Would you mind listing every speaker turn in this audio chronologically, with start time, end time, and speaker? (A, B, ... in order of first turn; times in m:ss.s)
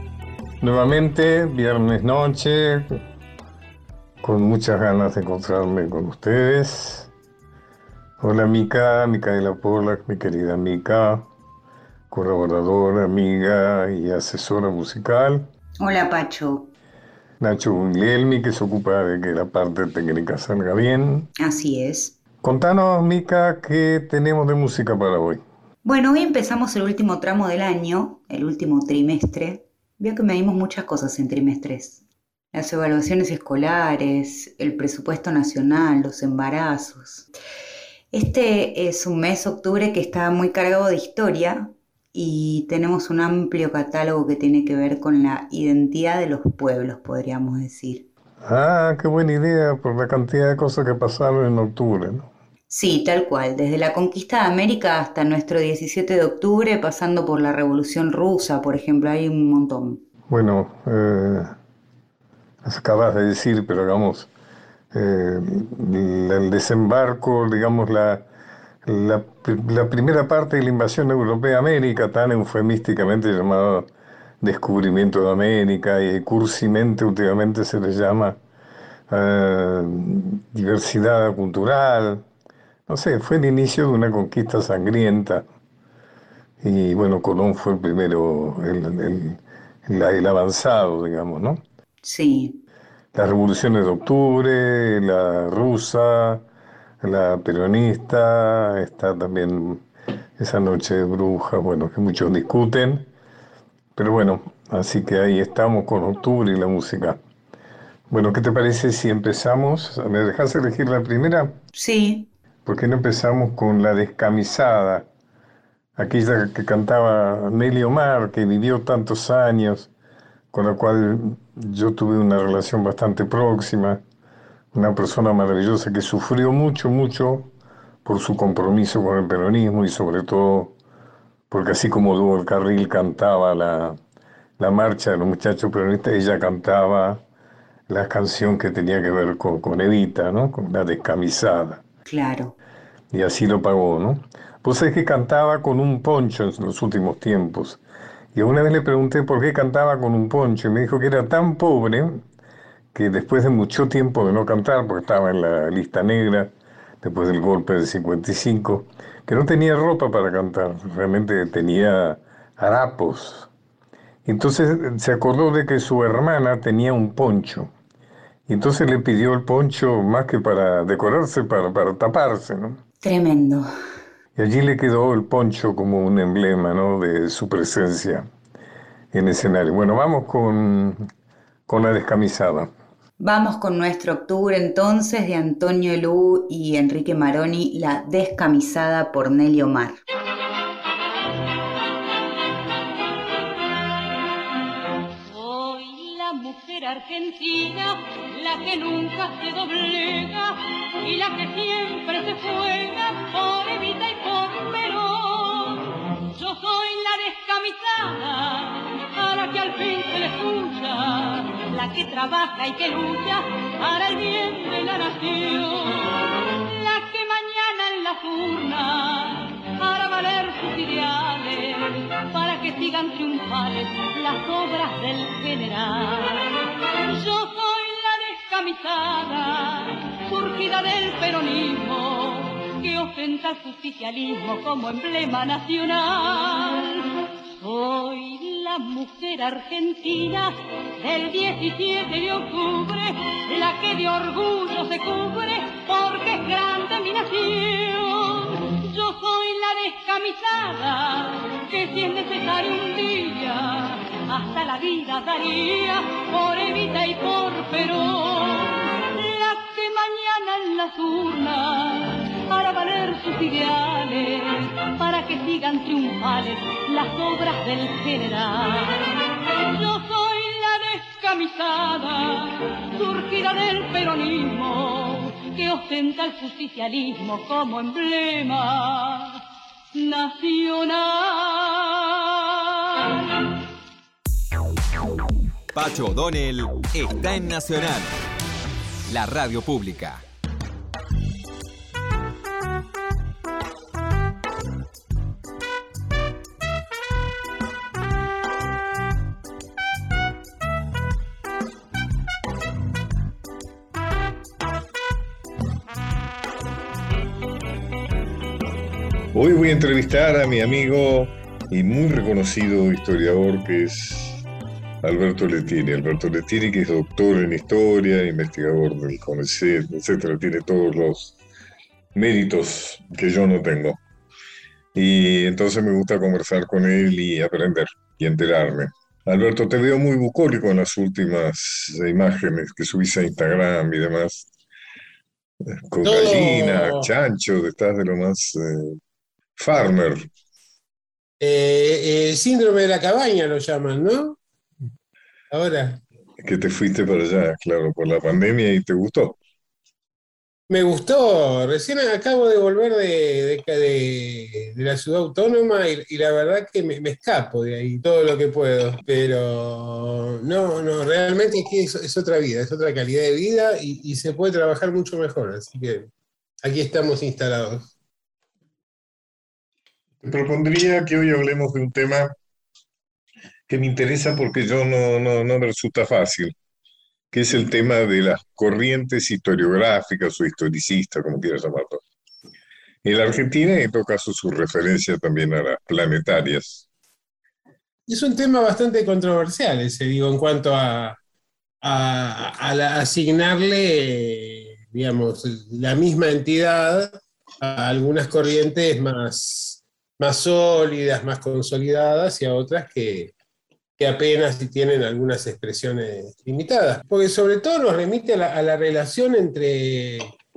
0:00.6-0:03.0 A
0:04.2-0:07.1 A
0:08.2-0:11.3 A
0:12.1-0:15.5 A
0:15.8-0:16.7 B
0:17.4-0:21.3 A
0:21.4-0:22.2 B
0:22.4-0:25.4 A
0:25.8-0:32.0 B
0:32.5-0:37.3 B
0:38.1-0:48.1 B
0:48.4-0:52.3 A
0:52.7-1:00.0 B
1:00.3-1:01.6 A
1:02.6-1:04.3 A
1:04.9-1:08.3 A
1:08.8-1:13.9 A
1:14.4-1:18.4 A
1:19.1-1:22.3 A
1:22.9-1:25.5 A
1:26.6-1:31.6 A
1:32.0-1:32.6 B
1:33.1-1:36.5 A
1:37.0-1:39.8 A
1:40.4-1:43.1 A
1:44.0-1:47.2 A
1:48.1-1:51.6 A
1:51.8-1:52.3 B
1:52.6-1:55.1 A
1:56.0-1:59.9 A
2:00.5-2:04.0 A
2:04.7-2:07.5 A
2:08.0-2:10.8 A
2:11.5-2:14.0 A
2:14.6-2:17.2 A
2:17.9-2:21.8 A
2:22.1-2:22.6 B
2:23.1-2:27.8 A
2:28.3-2:32.2 A
2:32.9-2:43.5 A
2:44.2-2:47.7 A
2:48.5-2:52.8 A
2:53.0-2:53.7 B
2:54.4-2:58.3 A
2:59.1-3:01.1 A
3:01.7-3:02.7 A
3:03.2-3:10.0 B
3:15.3-4:39.4 C
4:40.0-4:43.0 C
4:45.7-4:48.2 D
4:49.1-4:50.2 D
5:09.3-5:14.4 E
5:15.0-5:21.4 E
5:22.2-5:24.0 E
5:25.0-5:34.5 E
5:35.9-5:39.0 E
5:36.0-5:37.1 F
5:39.6-5:40.3 E
5:41.4-5:44.4 F
5:45.5-5:46.0 F
5:46.4-5:49.4 E
5:50.7-6:06.1 F
6:06.6-6:07.9 F
6:10.2-6:12.4 E
6:13.7-6:16.5 E
6:17.3-6:22.0 E
6:23.0-6:26.8 E
6:28.1-6:31.2 F
6:31.8-6:43.3 F
6:44.0-6:50.3 F